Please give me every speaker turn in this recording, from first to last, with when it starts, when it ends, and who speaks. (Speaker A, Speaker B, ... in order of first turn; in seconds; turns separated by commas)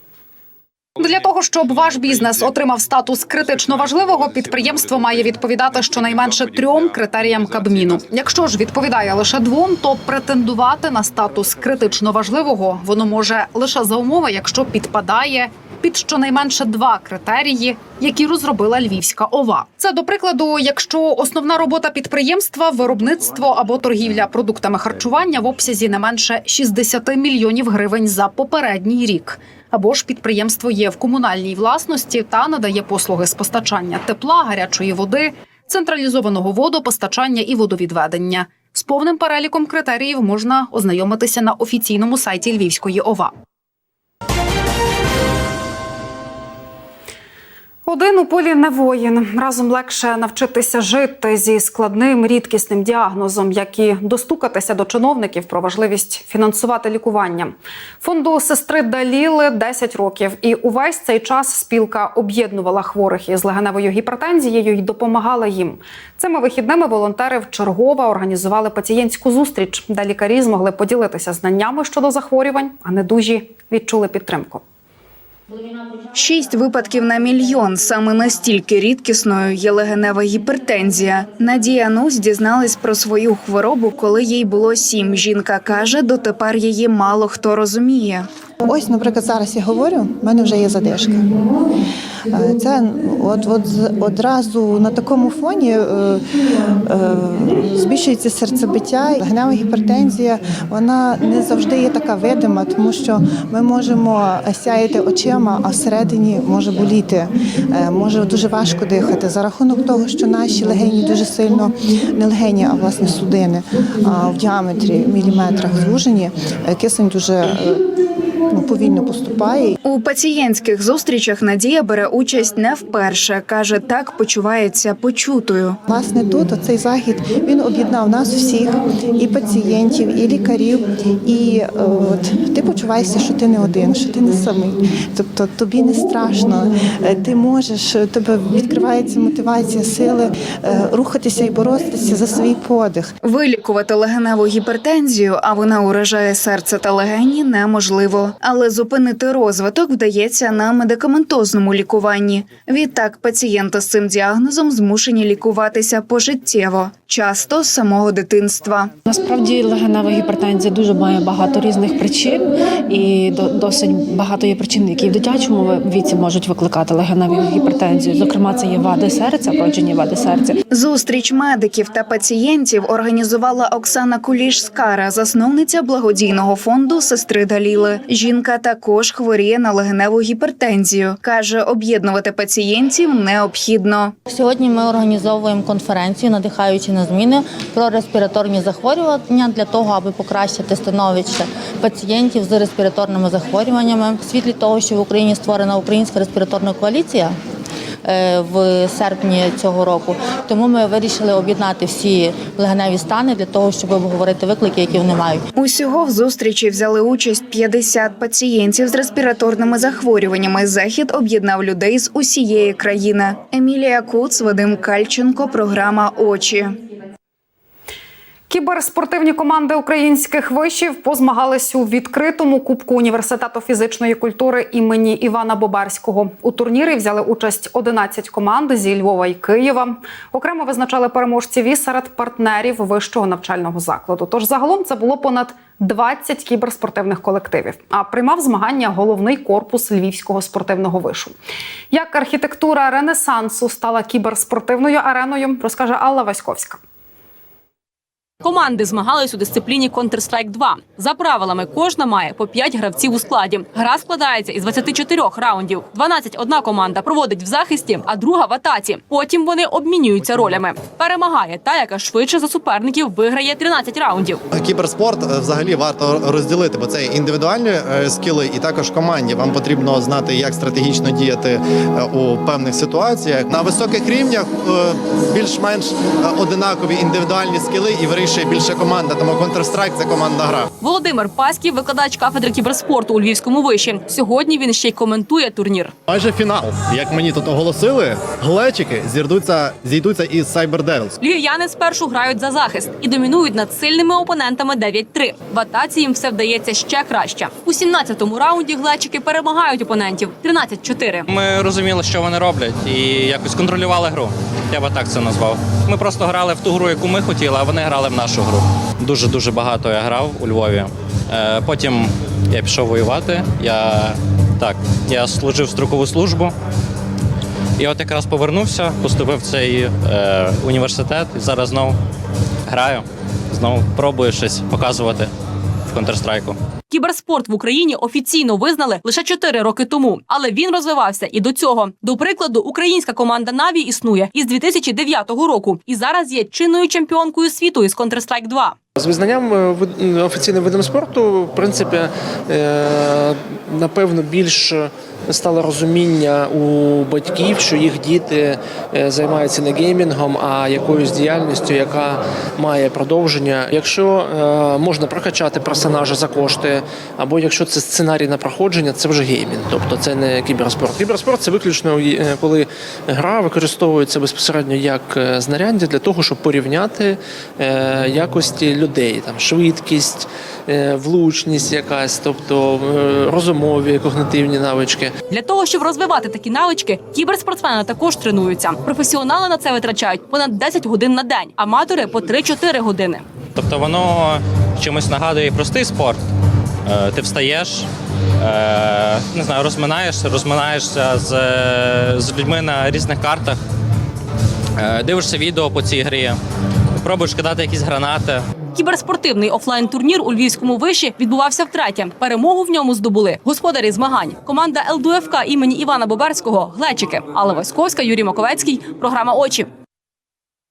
Speaker A: 1.0-43.3, Speaker A: 47.9-74.6, Speaker B: 76.1-88.3, Speaker C: 88.7-91.4, Speaker C: 92.3-96.2, Speaker C: 96.8-117.9, Speaker C: 118.5-119.8, Speaker B: 119.8-125.8, Speaker C: 125.9-143.1, Speaker B: 143.2-158.9, Speaker D: 159.1-170.5, Speaker B: 170.7-184.2, Speaker E: 184.3-197.3, Speaker E: 198.0-205.4, Speaker B: 205.6-216.8, Speaker A: 218.5-241.3, Speaker A: 241.9-246.8, Speaker F: 248.4-264.4, Speaker G: 264.5-280.7, Speaker F: 280.8-285.9, Speaker G: 286.1-291.1, Speaker F: 291.2-301.3, Speaker H: 301.3-316.5, Speaker H: 317.8-322.0, Speaker H: 322.7-325.3, Speaker H: 325.9-326.6, Speaker F: 326.9-338.8, Speaker I: 339.0-375.1, Speaker F: 375.3-383.2, Speaker H: 383.6-386.2, Speaker H: 386.9-387.9, Speaker H: 388.4-393.6, Speaker H: 394.8-396.4, Speaker H: 397.0-398.4, Speaker F: 398.8-409.7